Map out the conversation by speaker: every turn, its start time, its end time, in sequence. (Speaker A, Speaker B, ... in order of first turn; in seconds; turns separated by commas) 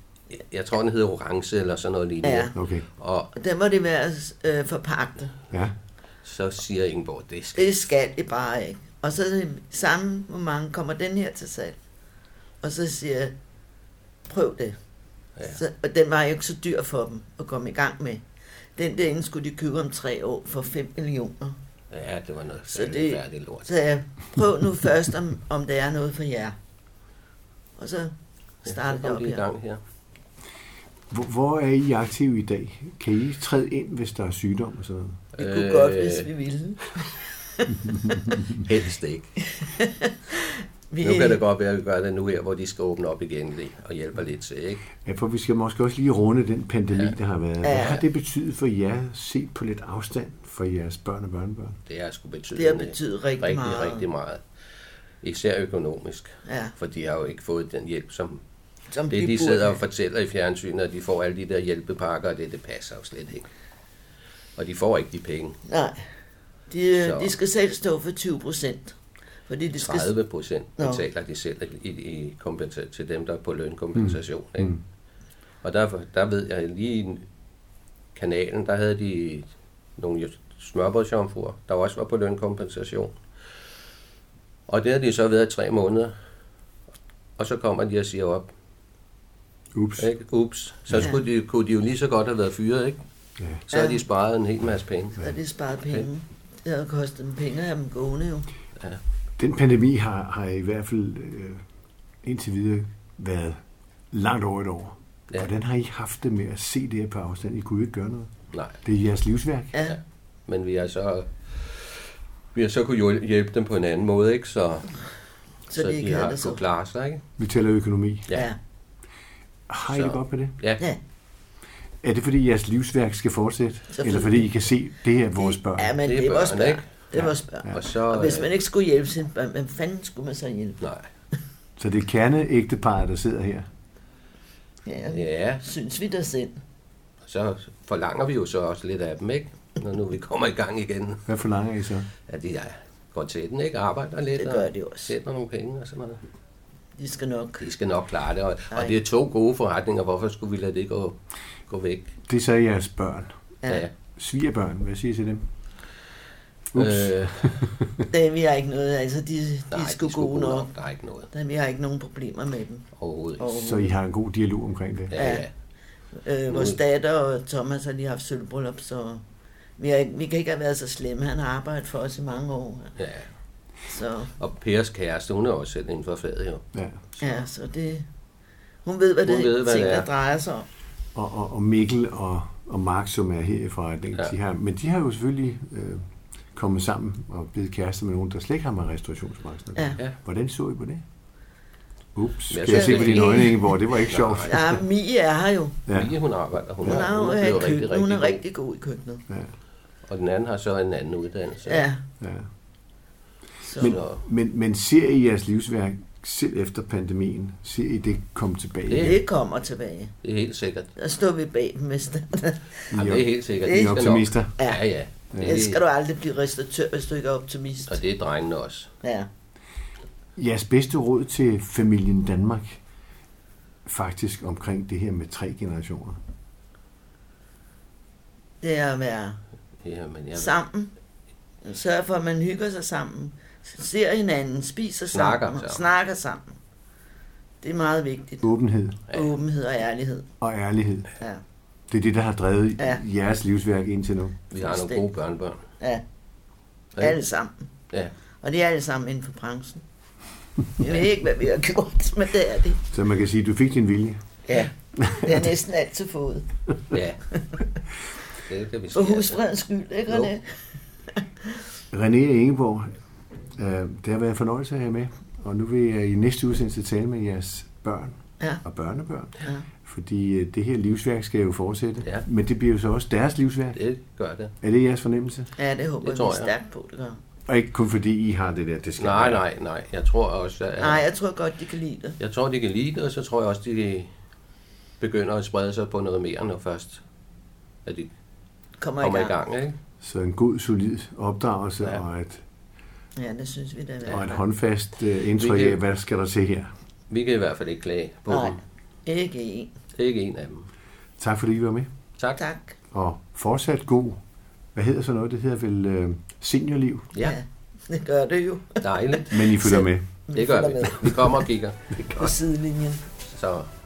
Speaker A: 0.3-3.3, Speaker B: 2.2-2.5, Speaker C: 2.5-2.9, Speaker B: 3.3-5.3, Speaker A: 6.2-7.8, Speaker B: 7.5-11.8, Speaker B: 12.6-13.3, Speaker B: 14.3-14.8, Speaker B: 15.4-18.2, Speaker B: 18.8-21.6, Speaker A: 21.9-23.7, Speaker B: 22.7-26.5, Speaker B: 27.8-28.1, Speaker B: 28.6-29.4, Speaker A: 28.6-29.8, Speaker C: 31.1-35.2, Speaker A: 35.4-36.3, Speaker B: 35.4-38.2, Speaker A: 38.4-39.4, Speaker B: 39.5-41.4, Speaker A: 41.0-44.8, Speaker C: 45.0-51.8, Speaker B: 47.6-48.0, Speaker A: 51.9-54.4, Speaker B: 52.5-54.0, Speaker A: 55.2-58.4, Speaker B: 56.4-56.7, Speaker B: 58.9-59.8, Speaker A: 59.1-63.5, Speaker A: 64.6-65.6, Speaker B: 65.7-66.0, Speaker B: 66.7-70.1, Speaker A: 67.0-67.3, Speaker A: 69.8-74.8, Speaker B: 70.8-71.0, Speaker C: 74.0-74.8, Speaker A: 75.6-77.2, Speaker A: 78.1-83.1, Speaker A: 84.7-86.1, Speaker A: 87.4-88.5, Speaker C: 89.7-90.1, Speaker A: 90.0-93.0, Speaker C: 93.4-93.6, Speaker A: 93.7-95.2, Speaker B: 93.7-94.0, Speaker B: 95.2-98.5, Speaker C: 99.4-101.6, Speaker C: 102.2-108.3, Speaker A: 108.5-108.8, Speaker C: 108.8-109.7, Speaker A: 109.8-115.0, Speaker B: 115.7-116.6, Speaker A: 115.7-117.2, Speaker C: 117.4-118.3, Speaker C: 119.7-120.5, Speaker A: 119.9-120.8, Speaker C: 122.0-126.0, Speaker B: 123.9-124.5, Speaker B: 125.4-130.8, Speaker A: 126.0-127.0, Speaker A: 127.7-128.5, Speaker C: 131.8-133.7, Speaker B: 134.8-136.6, Speaker A: 135.1-135.6, Speaker A: 137.2-141.2, Speaker C: 141.2-142.1, Speaker A: 142.3-146.2, Speaker B: 144.4-145.1, Speaker B: 147.0-147.7, Speaker A: 147.6-151.2, Speaker B: 148.7-149.0, Speaker A: 151.7-152.1, Speaker C: 152.3-153.3, Speaker C: 154.2-155.4, Speaker C: 156.7-158.1, Speaker A: 156.7-157.6, Speaker B: 158.1-160.7, Speaker A: 159.7-161.3, Speaker B: 161.3-162.9, Speaker A: 163.0-163.6, Speaker B: 163.4-163.9, Speaker C: 163.5-165.2, Speaker A: 165.1-165.5, Speaker B: 165.1-165.5, Speaker B: 166.2-169.2, Speaker A: 166.5-166.8, Speaker B: 169.8-172.9, Speaker A: 173.0-173.3, Speaker B: 173.9-174.3, Speaker A: 174.4-177.4, Speaker C: 176.7-177.0, Speaker B: 177.2-178.1, Speaker B: 178.8-180.7, Speaker A: 179.2-180.1, Speaker C: 181.1-191.0, Speaker C: 192.1-194.7, Speaker A: 192.5-194.8, Speaker B: 192.7-193.7, Speaker B: 194.4-195.8, Speaker C: 195.9-196.1, Speaker A: 195.9-198.4, Speaker B: 196.8-199.2, Speaker A: 200.1-201.9, Speaker B: 201.7-202.0, Speaker C: 202.2-202.5, Speaker B: 203.6-204.0, Speaker A: 203.8-204.2, Speaker C: 203.8-209.2, Speaker A: 208.9-209.2, Speaker B: 209.0-210.1, Speaker A: 210.2-210.9, Speaker B: 210.9-212.9, Speaker A: 212.9-215.8, Speaker C: 212.9-214.5, Speaker B: 213.6-214.8, Speaker C: 215.3-215.6, Speaker B: 215.4-218.0, Speaker A: 217.9-218.9, Speaker B: 219.0-219.3, Speaker C: 220.3-222.8, Speaker C: 223.8-226.2, Speaker B: 228.6-229.4, Speaker A: 229.8-230.6, Speaker B: 230.3-230.9, Speaker B: 231.6-236.6, Speaker A: 235.1-235.8, Speaker B: 237.6-238.5, Speaker C: 238.4-239.0, Speaker B: 239.1-240.3, Speaker C: 240.4-241.1, Speaker C: 241.9-244.4, Speaker A: 244.5-245.6, Speaker B: 244.6-245.0, Speaker B: 247.0-247.5, Speaker B: 248.4-249.8, Speaker B: 250.8-252.8, Speaker C: 252.9-254.2, Speaker B: 254.5-256.5, Speaker C: 255.0-255.5, Speaker A: 256.9-257.2, Speaker A: 258.4-259.4, Speaker B: 258.9-260.6, Speaker C: 261.9-262.9, Speaker C: 263.6-273.8, Speaker A: 273.7-274.5, Speaker C: 274.6-275.5, Speaker B: 275.6-277.2, Speaker A: 276.0-276.5, Speaker C: 277.5-279.4, Speaker A: 279.0-281.1, Speaker B: 280.8-282.2, Speaker A: 282.2-284.1, Speaker A: 285.0-287.0, Speaker A: 287.8-288.1, Speaker B: 288.8-289.3, Speaker A: 289.0-289.7, Speaker C: 290.0-292.4, Speaker B: 293.1-294.2, Speaker C: 294.1-296.7, Speaker A: 295.4-295.8, Speaker A: 297.1-298.6, Speaker B: 298.3-299.7, Speaker A: 299.9-300.7, Speaker C: 301.2-301.9, Speaker B: 302.4-302.8, Speaker C: 302.9-304.2, Speaker C: 304.7-307.1, Speaker B: 307.2-311.4, Speaker A: 308.8-309.3, Speaker C: 309.3-310.0, Speaker A: 310.3-312.3, Speaker B: 312.0-313.0, Speaker A: 313.3-313.7